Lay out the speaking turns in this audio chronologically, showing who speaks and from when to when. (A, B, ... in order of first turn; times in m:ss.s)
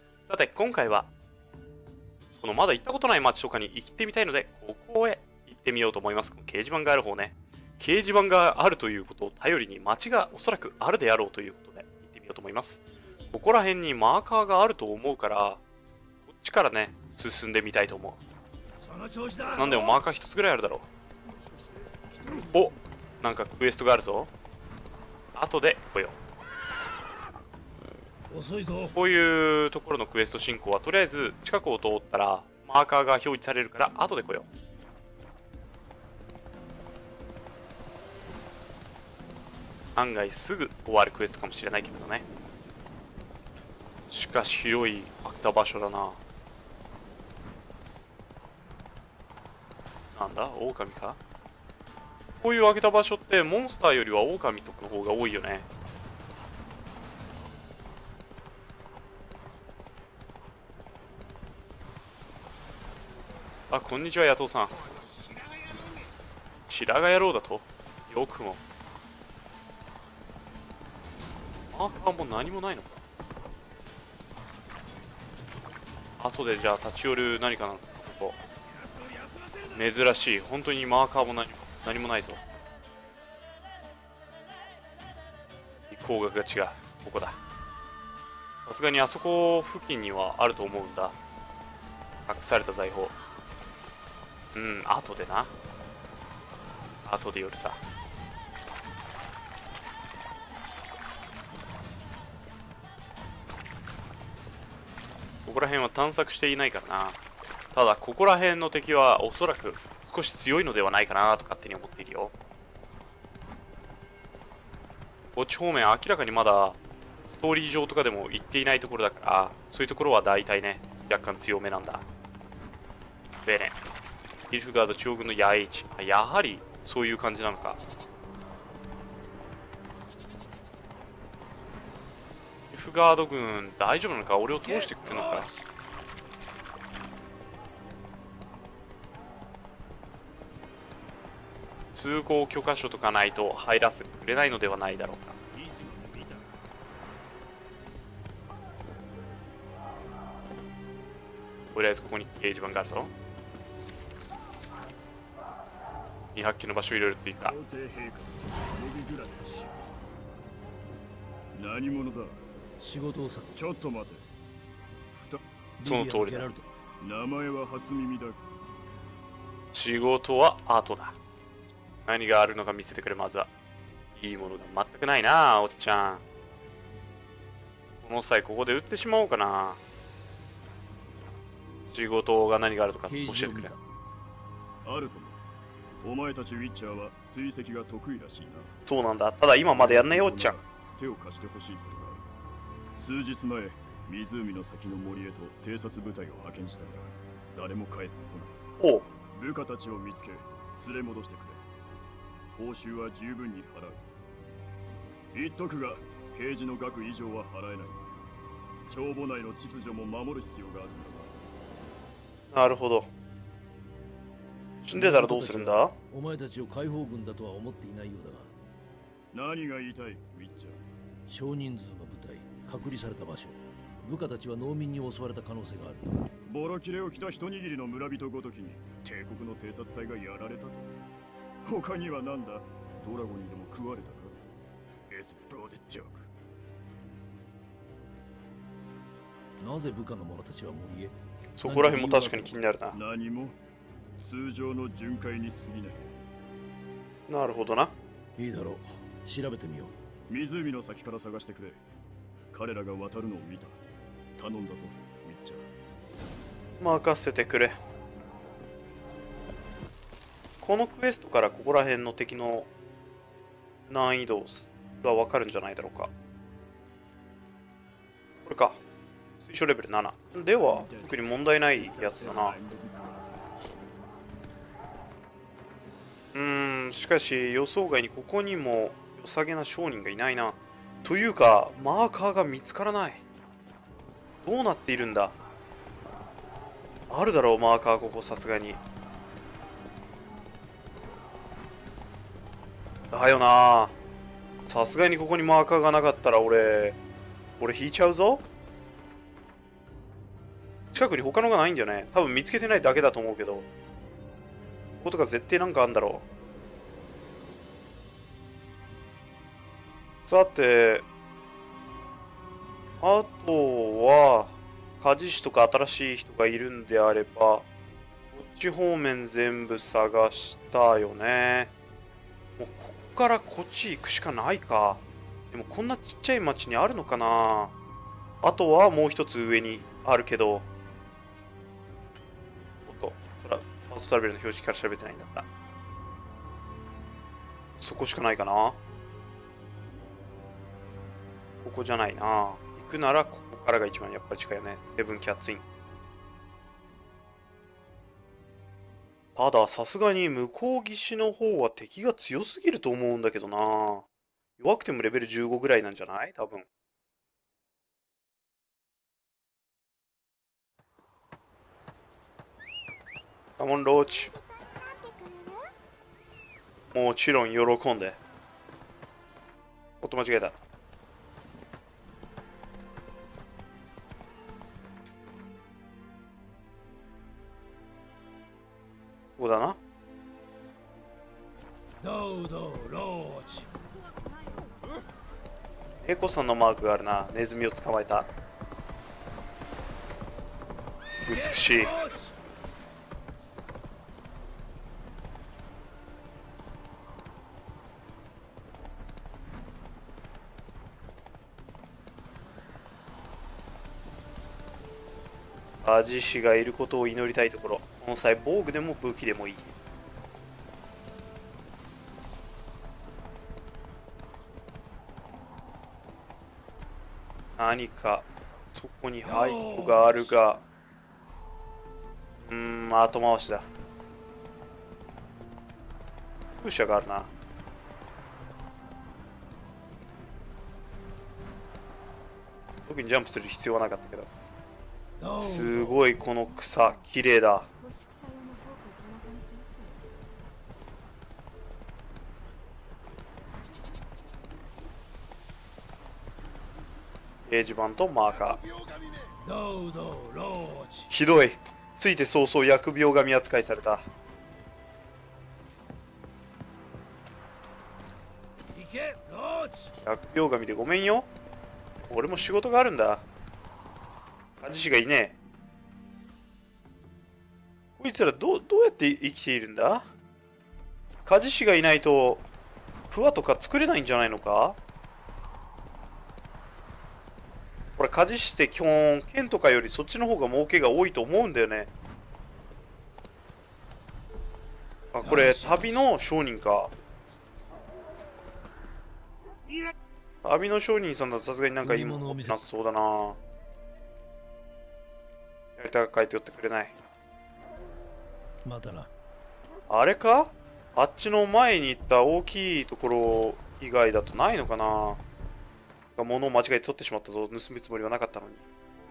0:00.3-0:01.1 A
0:02.4-0:15.6 A
0:16.3-0:18.2 A
0:18.8-0:20.2 B
0:19.6-0:20.9 A
0:21.3-0:22.5 C
0:22.3-0:24.3 A
0:25.4-0:26.2 A
0:28.3-0:29.0 B
0:28.9-0:34.5 A
0:40.0-0:42.2 A
0:44.1-0:46.2 A
0:50.1-0:51.2 A
0:52.4-0:55.7 A
1:03.7-1:04.7 A
1:06.7-1:08.6 A
1:11.7-1:13.0 A
1:16.2-1:18.4 A
1:19.7-1:22.4 A
1:25.9-1:27.4 A
1:28.6-1:31.2 A
1:32.3-1:33.2 A
1:34.5-1:35.5 A
1:37.0-1:37.8 A
1:45.4-1:47.2 A
1:47.7-1:52.3 A
1:55.4-1:56.8 A
1:57.3-2:02.0 A
2:03.4-2:03.8 A
2:04.5-2:07.8 A
2:12.7-2:15.5 A
2:14.6-2:15.6 B
2:21.9-2:25.4 A
2:25.5-2:26.5 C
2:31.7-2:33.1 A
2:36.3-2:37.6 A
2:37.4-2:39.9 C
2:41.5-2:42.4 C
2:42.8-2:43.5 B
2:43.6-2:44.3 C
2:45.1-2:45.4 C
2:45.8-2:46.7 B
2:45.8-2:46.5 A
2:47.0-2:48.4 C
2:49.7-2:51.2 A
2:52.1-2:53.5 A
2:54.2-2:56.2 A
2:58.0-2:59.8 A
3:01.9-3:03.7 A
3:03.1-3:03.8 B
3:04.8-3:05.4 C
3:06.0-3:08.8 C
3:08.8-3:10.6 A
3:09.8-3:12.3 C
3:12.9-3:18.6 C
3:18.8-3:19.1 A
3:19.3-3:21.6 C
3:22.6-3:24.0 C
3:25.3-3:28.0 C
3:28.9-3:31.3 C
3:32.5-3:33.1 A
3:34.8-3:38.5 B
3:34.9-3:35.9 A
3:39.3-3:40.8 C
3:41.3-3:46.1 B
3:46.5-3:50.9 C
3:51.6-3:54.4 C
3:55.1-3:56.3 C
3:59.6-4:02.6 B
4:01.6-4:03.0 A
4:02.9-4:03.6 C
4:04.2-4:06.1 C
4:07.3-4:08.0 A
4:08.4-4:10.0 B
4:10.3-4:11.8 C
4:12.5-4:13.8 C
4:14.4-4:15.7 C
4:16.8-4:17.8 A
4:20.6-4:22.7 A
4:23.9-4:26.1 A
4:28.4-4:28.8 A
4:29.4-4:32.6 A
4:30.6-4:33.6 C
4:36.3-4:43.2 A
4:44.4-4:45.4 A
4:47.1-4:48.8 A
4:53.1-4:53.9 A
4:54.7-4:57.0 A
4:57.6-4:58.4 A
5:00.9-5:03.7 A
5:05.0-5:06.2 A
5:10.2-5:11.1 A
5:13.0-5:17.7 A
5:18.3-5:21.7 A
5:22.6-5:27.7 A
5:28.4-5:30.7 A
5:32.8-5:35.5 A
5:37.8-5:38.8 A
5:41.6-5:45.6 A
5:49.4-5:54.1 A
5:54.6-5:56.7 A
6:03.6-6:04.3 A
6:03.8-6:05.7 D
6:06.9-6:08.2 A
6:10.0-6:10.6 A
6:19.4-6:19.8 A
6:22.0-6:23.7 B
6:23.7-6:25.0 D
6:26.0-6:28.3 A
6:31.2-6:32.0 A
6:31.3-6:32.3 B
6:45.8-6:49.7 A
6:57.6-7:00.6 A
6:59.2-7:00.4 B
7:02.4-7:03.7 A
7:06.6-7:07.3 A
7:12.9-7:14.3 A
7:15.2-7:16.0 B
7:15.4-7:17.7 A
7:16.0-7:17.1 D
7:17.8-7:20.1 D
7:27.5-7:28.6 A
7:29.4-7:31.1 B
7:31.1-7:34.1 A
7:38.7-7:39.9 B
7:40.0-7:41.3 A
7:42.1-7:43.2 A
7:44.6-7:45.4 A
7:48.0-7:50.1 A
7:51.3-7:52.4 A
7:53.1-7:54.8 A
7:58.0-8:01.9 A
8:05.1-8:06.9 A
8:05.2-8:06.1 B
8:10.4-8:13.4 A
8:11.8-8:12.6 B
8:15.8-8:16.9 A
8:18.6-8:19.1 B
8:19.9-8:25.2 A
8:26.2-8:28.6 A